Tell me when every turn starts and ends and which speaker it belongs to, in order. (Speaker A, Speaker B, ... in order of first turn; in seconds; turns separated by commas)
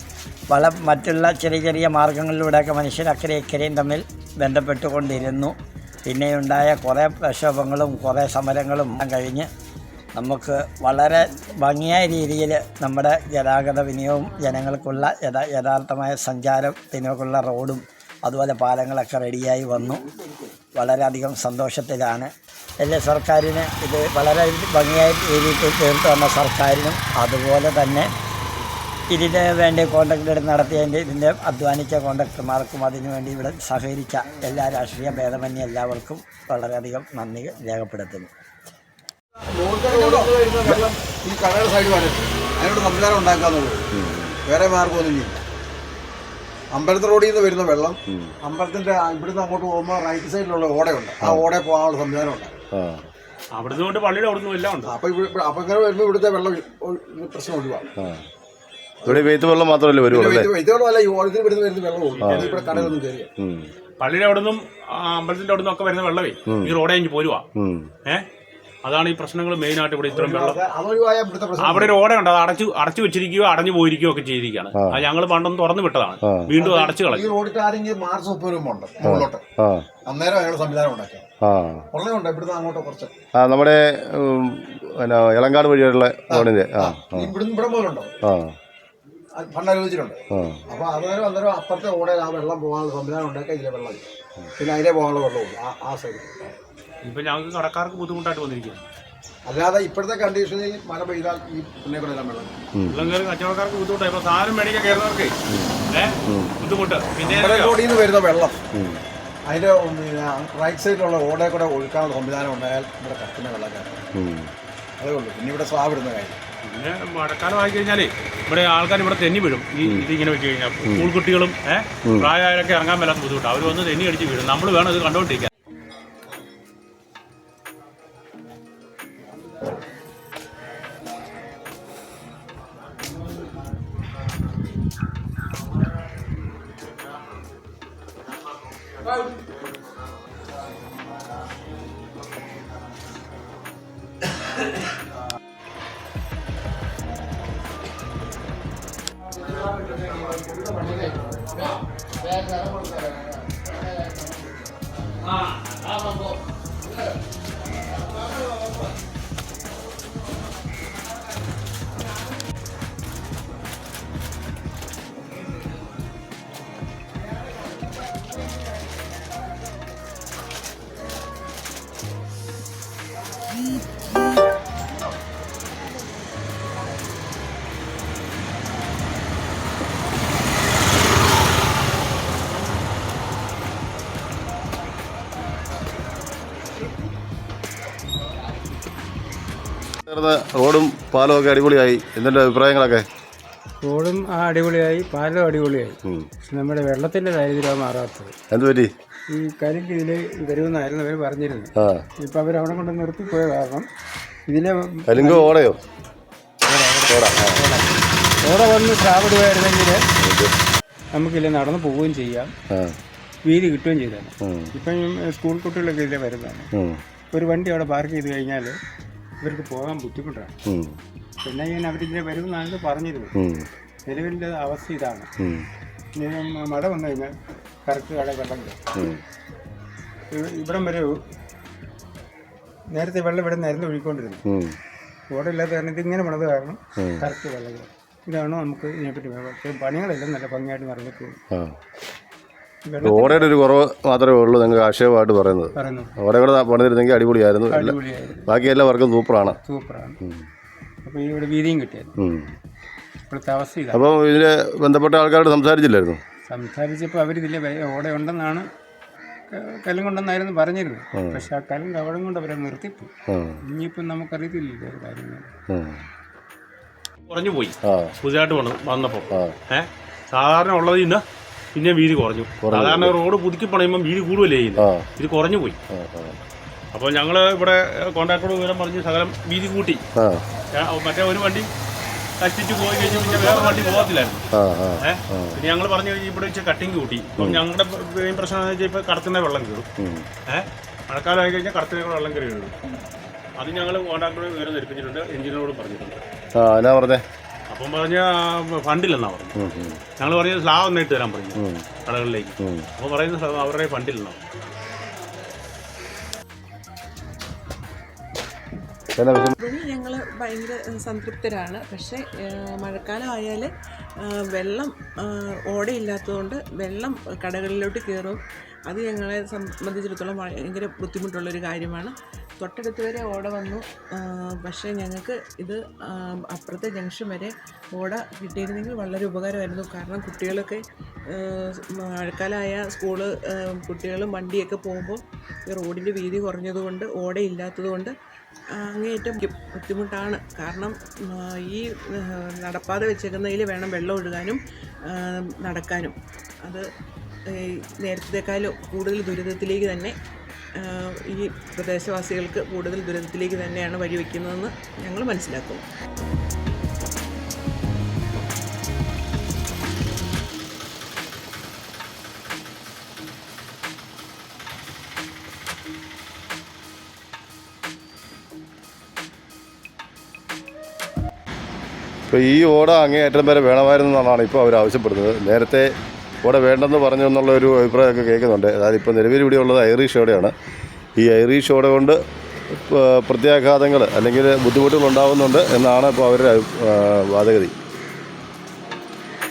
Speaker A: 0.5-9.5, Speaker A: 10.2-20.0, Speaker A: 20.8-22.3, Speaker A: 22.8-28.1, Speaker A: 29.1-38.3, Speaker B: 39.5-43.9, Speaker C: 43.9-44.4, Speaker B: 44.5-45.4, Speaker B: 46.7-52.6, Speaker C: 52.7-53.0, Speaker D: 53.5-54.9, Speaker B: 54.9-57.9, Speaker C: 58.0-58.2, Speaker B: 59.0-59.3, Speaker C: 59.0-60.5, Speaker B: 60.1-63.3, Speaker D: 62.1-62.7, Speaker C: 62.7-63.7, Speaker D: 64.0-67.4, Speaker C: 66.5-66.7, Speaker C: 67.5-67.9, Speaker D: 68.8-70.6, Speaker B: 70.1-72.0, Speaker D: 71.6-77.3, Speaker B: 76.6-79.4, Speaker C: 79.0-79.9, Speaker B: 80.0-81.2, Speaker C: 81.4-81.8, Speaker B: 81.9-83.1, Speaker C: 83.4-87.3, Speaker B: 86.3-88.1, Speaker C: 88.2-88.5, Speaker B: 89.4-94.0, Speaker C: 90.3-90.6, Speaker B: 94.6-96.5, Speaker D: 97.0-98.8, Speaker B: 99.5-102.6, Speaker D: 102.9-105.3, Speaker C: 105.5-105.8, Speaker D: 105.9-107.8, Speaker C: 106.3-106.5, Speaker B: 107.2-108.6, Speaker C: 108.7-109.0, Speaker B: 109.4-114.0, Speaker C: 114.2-114.5, Speaker B: 115.0-116.4, Speaker D: 116.6-125.5, Speaker C: 190.1-193.0, Speaker E: 193.8-198.3, Speaker C: 198.5-198.9, Speaker E: 199.3-201.7, Speaker C: 201.8-202.0, Speaker E: 202.2-203.9, Speaker E: 204.5-205.5, Speaker C: 205.1-205.8, Speaker E: 206.7-207.9, Speaker C: 207.1-207.6, Speaker E: 208.4-210.0, Speaker C: 210.2-210.5, Speaker E: 211.2-212.5, Speaker E: 213.5-216.7, Speaker C: 214.4-214.7, Speaker C: 216.7-217.0, Speaker E: 217.3-218.7, Speaker E: 219.4-220.5, Speaker C: 220.7-221.0, Speaker E: 221.4-223.3, Speaker C: 223.4-223.7, Speaker E: 224.1-225.3, Speaker C: 225.4-225.7, Speaker E: 226.2-227.3, Speaker E: 227.8-228.8, Speaker C: 228.9-229.2, Speaker E: 230.3-231.1, Speaker E: 232.9-234.4, Speaker C: 234.5-234.8, Speaker E: 235.3-241.3, Speaker C: 237.0-237.2, Speaker E: 242.9-243.5, Speaker C: 243.0-249.6, Speaker E: 245.8-246.1, Speaker E: 247.8-248.4, Speaker E: 249.6-250.2, Speaker E: 251.0-252.1, Speaker C: 252.2-252.5, Speaker E: 253.3-253.9, Speaker C: 253.9-256.2, Speaker E: 256.5-258.6, Speaker E: 259.5-263.1, Speaker C: 261.1-261.4, Speaker C: 263.3-263.6, Speaker E: 263.7-265.5, Speaker C: 265.7-266.0, Speaker D: 267.3-271.2, Speaker C: 267.8-268.1, Speaker D: 271.8-275.8, Speaker C: 272.6-273.1, Speaker C: 274.8-275.1, Speaker C: 275.9-276.4, Speaker D: 276.9-280.0, Speaker C: 280.2-280.4, Speaker D: 280.7-281.7, Speaker D: 282.4-284.4, Speaker C: 284.5-285.6, Speaker D: 285.0-289.9, Speaker C: 290.0-290.3, Speaker D: 290.5-292.8, Speaker D: 293.6-296.2, Speaker C: 296.6-297.2, Speaker D: 297.7-299.6, Speaker C: 299.6-300.0, Speaker D: 300.2-304.4, Speaker C: 301.6-301.8, Speaker C: 302.6-302.9, Speaker C: 309.1-309.5, Speaker F: 309.6-313.7, Speaker F: 314.2-330.8, Speaker F: 331.3-338.1, Speaker F: 338.8-346.8, Speaker F: 347.5-350.1, Speaker F: 350.8-355.8, Speaker C: 372.3-375.9, Speaker C: 376.4-380.5, Speaker C: 381.2-382.2, Speaker C: 382.7-387.7